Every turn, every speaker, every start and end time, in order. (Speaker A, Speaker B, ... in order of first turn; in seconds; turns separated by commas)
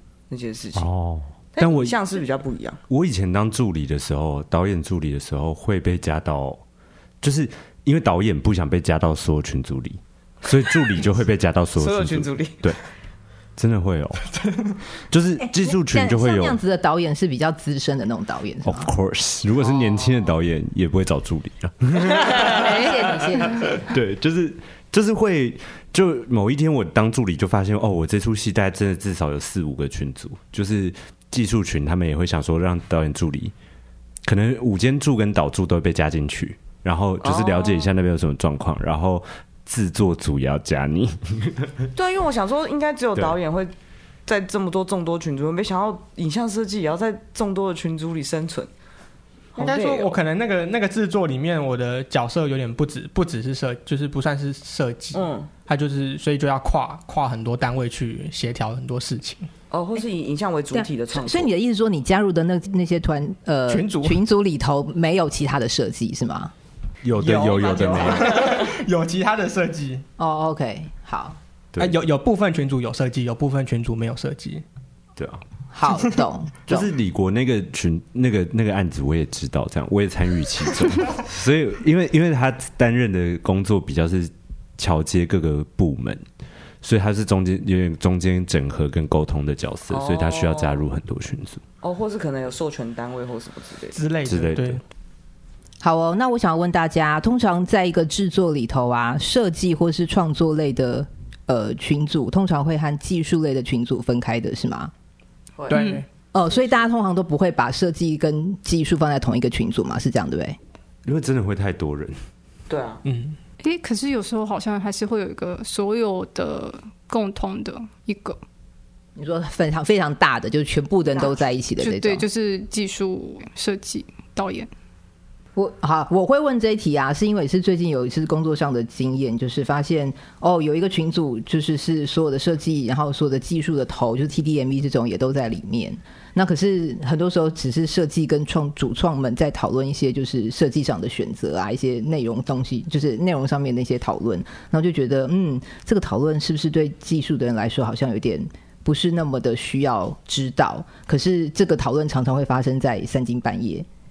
Speaker A: 0.3-0.9, Speaker B: 0.7-2.0, Speaker A: 1.6-2.8, Speaker B: 2.9-6.6, Speaker B: 7.2-12.8, Speaker A: 11.8-12.8, Speaker B: 13.6-14.2, Speaker B: 15.1-16.6, Speaker C: 15.4-18.9, Speaker B: 18.6-33.5, Speaker A: 19.6-20.3, Speaker C: 22.4-23.8, Speaker B: 34.2-41.8, Speaker A: 37.2-37.9, Speaker A: 41.9-43.7, Speaker A: 44.3-48.7, Speaker A: 49.5-50.2, Speaker D: 49.6-59.5, Speaker A: 55.1-55.5, Speaker A: 59.7-61.5, Speaker C: 60.7-66.5, Speaker D: 63.7-64.2, Speaker B: 67.0-68.3, Speaker D: 67.2-70.0, Speaker C: 70.2-71.4, Speaker D: 71.8-74.6, Speaker B: 75.2-75.4, Speaker C: 75.7-76.9, Speaker B: 76.7-86.2, Speaker B: 86.8-91.6, Speaker A: 89.9-90.9, Speaker A: 91.8-94.0, Speaker D: 93.9-94.8, Speaker B: 94.2-94.8, Speaker C: 95.8-104.9, Speaker A: 105.6-105.9, Speaker D: 105.7-106.0, Speaker E: 105.7-106.0, Speaker C: 106.3-110.6, Speaker B: 111.0-112.2, Speaker A: 112.7-113.0, Speaker D: 113.0-113.4, Speaker E: 113.6-118.4, Speaker C: 119.2-122.2, Speaker E: 121.2-124.7, Speaker C: 125.5-153.8